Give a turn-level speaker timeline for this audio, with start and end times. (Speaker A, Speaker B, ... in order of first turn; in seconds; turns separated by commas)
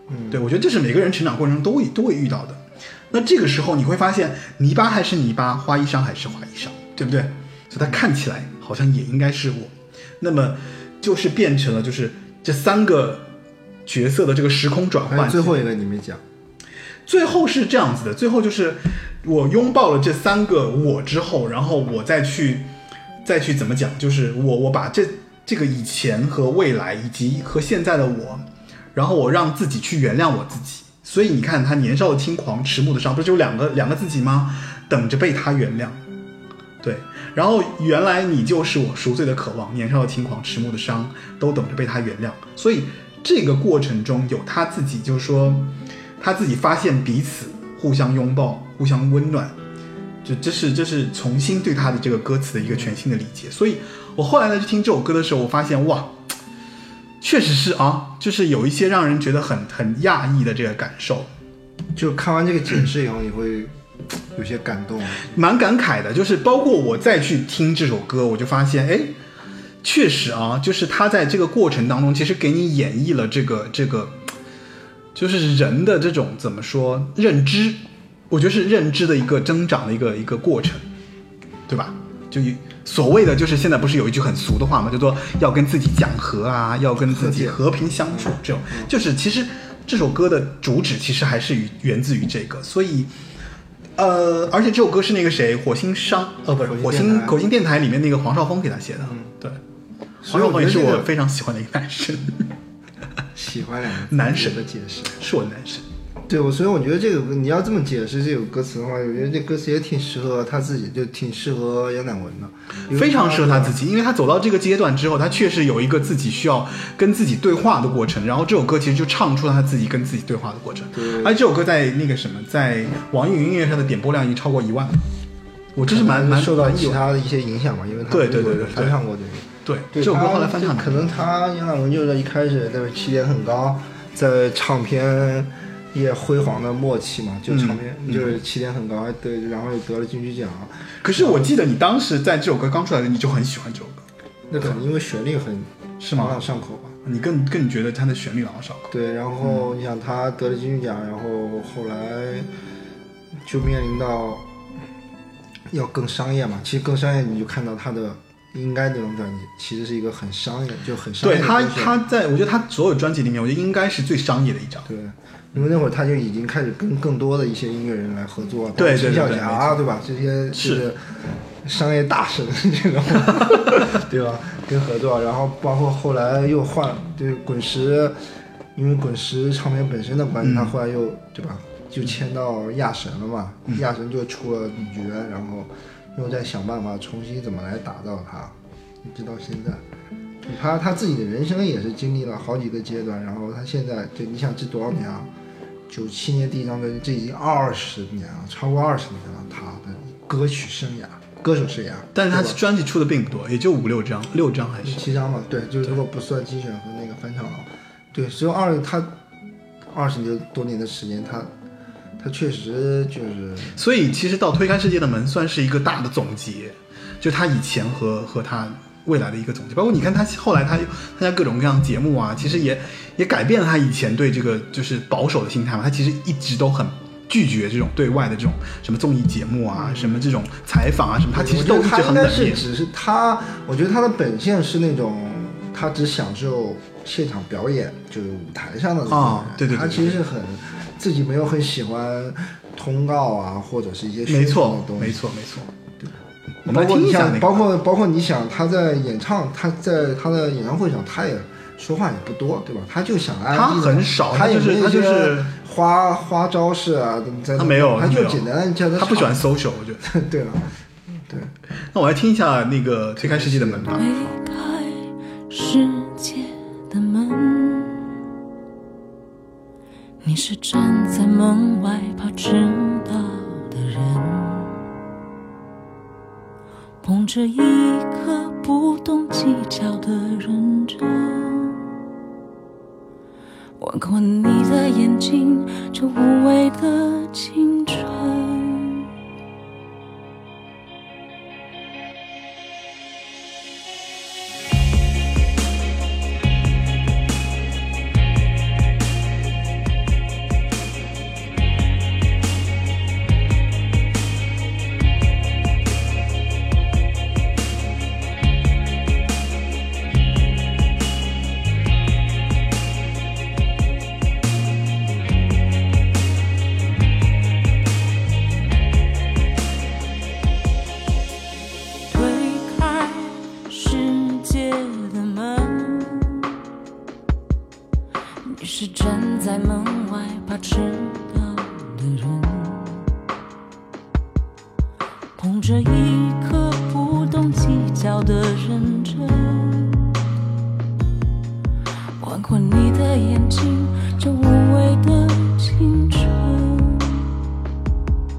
Speaker A: 0.1-0.4, Speaker B: 0.3-13.3, Speaker B: 13.9-15.6, Speaker A: 15.1-16.2, Speaker B: 17.1-22.7, Speaker B: 23.2-36.0, Speaker B: 36.8-49.5, Speaker B: 50.2-56.2, Speaker B: 57.2-61.3, Speaker A: 62.0-63.7, Speaker A: 64.3-65.3, Speaker B: 65.2-69.2, Speaker B: 69.8-74.2, Speaker B: 75.2-80.8, Speaker B: 81.7-93.1, Speaker A: 87.1-88.9, Speaker B: 94.0-99.6, Speaker A: 96.6-97.4, Speaker A: 99.0-99.3, Speaker B: 100.2-102.5, Speaker A: 100.2-101.1, Speaker A: 103.3-105.2, Speaker B: 104.1-104.6, Speaker B: 105.2-105.8, Speaker A: 106.3-113.8, Speaker B: 112.9-125.0, Speaker A: 120.9-121.4, Speaker B: 125.8-127.0, Speaker A: 125.8-141.5, Speaker B: 128.1-129.0, Speaker B: 129.7-131.1, Speaker B: 137.5-138.4, Speaker B: 141.0-144.0, Speaker A: 144.5-146.9, Speaker B: 146.0-146.4, Speaker B: 147.0-148.9, Speaker A: 148.9-152.5, Speaker A: 153.4-154.5, Speaker A: 155.7-162.0, Speaker B: 161.2-164.9, Speaker A: 164.9-178.2, Speaker B: 168.8-169.8, Speaker B: 170.5-170.8, Speaker A: 178.8-189.8, Speaker B: 180.4-180.8, Speaker A: 190.4-195.3, Speaker A: 195.9-202.6, Speaker B: 202.2-205.1, Speaker A: 204.8-209.1, Speaker A: 209.9-211.5, Speaker A: 212.2-213.8, Speaker B: 213.8-232.6, Speaker A: 229.8-230.3, Speaker A: 231.3-245.2, Speaker B: 239.1-240.2, Speaker B: 244.3-245.7, Speaker A: 246.7-259.4, Speaker B: 246.7-247.7, Speaker B: 253.5-255.5, Speaker B: 257.6-260.0, Speaker A: 260.0-261.5, Speaker B: 261.9-264.1, Speaker A: 263.2-264.3, Speaker C: 264.0-268.1, Speaker C: 270.2-274.8, Speaker C: 277.0-281.8, Speaker C: 283.8-289.1, Speaker C: 322.1-326.6, Speaker C: 328.4-333.0, Speaker C: 335.4-340.1, Speaker C: 342.2-347.3